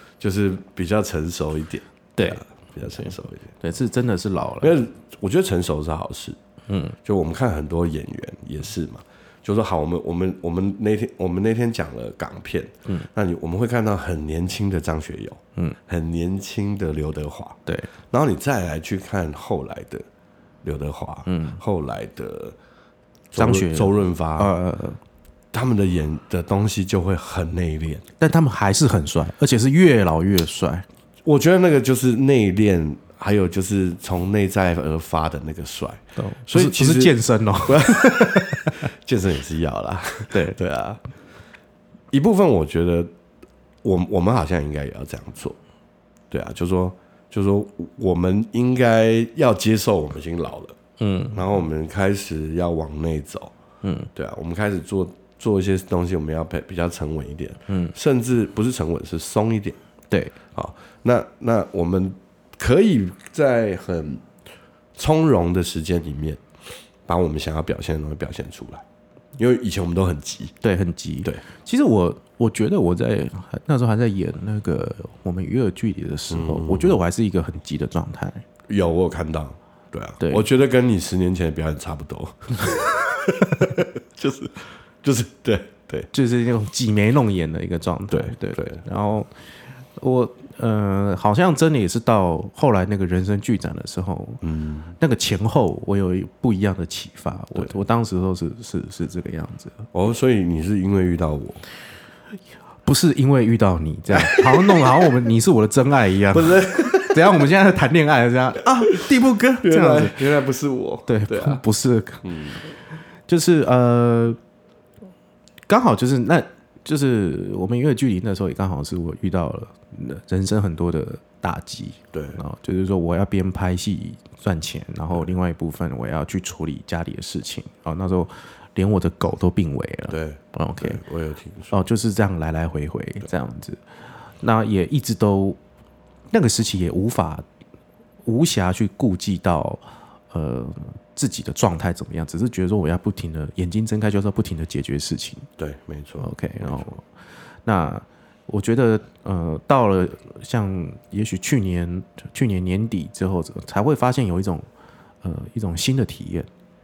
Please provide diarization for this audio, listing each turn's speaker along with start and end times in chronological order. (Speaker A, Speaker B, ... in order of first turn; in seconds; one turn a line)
Speaker A: 0.2-3.5
Speaker B: 2.2-4.8
Speaker A: 4.6-6.4
Speaker B: 6.7-7.0
Speaker A: 7.0-17.6
Speaker A: 18.1-20.1
Speaker A: 20.6-22.6
Speaker B: 21.3-21.6
Speaker A: 23.3-24.5
Speaker B: 23.4-25.0
Speaker A: 25.5-28.1
Speaker B: 28.2-30.9
Speaker A: 31.2-41.0
Speaker B: 36.2-38.9
Speaker B: 40.3-40.6
Speaker A: 42.1-43.1
Speaker A: 43.8-45.6
Speaker A: 46.3-50.8
Speaker B: 51.0-51.4
Speaker A: 51.3-53.5
Speaker B: 53.8-54.1
Speaker A: 54.1-59.8
Speaker B: 57.7-57.9
Speaker A: 60.5-64.3
Speaker A: 65.0-66.4
Speaker A: 67.1-68.8
Speaker A: 69.4-70.5
Speaker B: 70.6-78.4
Speaker A: 76.3-77.0
Speaker A: 78.7-86.1
Speaker B: 80.2-80.5
Speaker B: 86.1-89.3
Speaker A: 88.1-88.8
Speaker B: 90.0-94.4
Speaker A: 94.4-94.9
Speaker B: 95.0-99.9
Speaker A: 99.9-101.6
Speaker B: 102.9-110.2
Speaker A: 104.1-105.0
Speaker A: 106.3-107.5
Speaker A: 109.6-111.6
Speaker B: 111.1-112.3
Speaker A: 112.2-112.6
Speaker B: 113.3-114.4
Speaker B: 115.7-131.0
Speaker A: 122.1-122.4
Speaker A: 130.1-131.7
Speaker B: 131.7-133.8
Speaker B: 134.4-135.6
Speaker B: 136.3-137.4
Speaker B: 138.2-145.5
Speaker A: 145.6-146.9
Speaker B: 146.2-147.0
Speaker B: 147.7-154.7
Speaker B: 155.2-156.5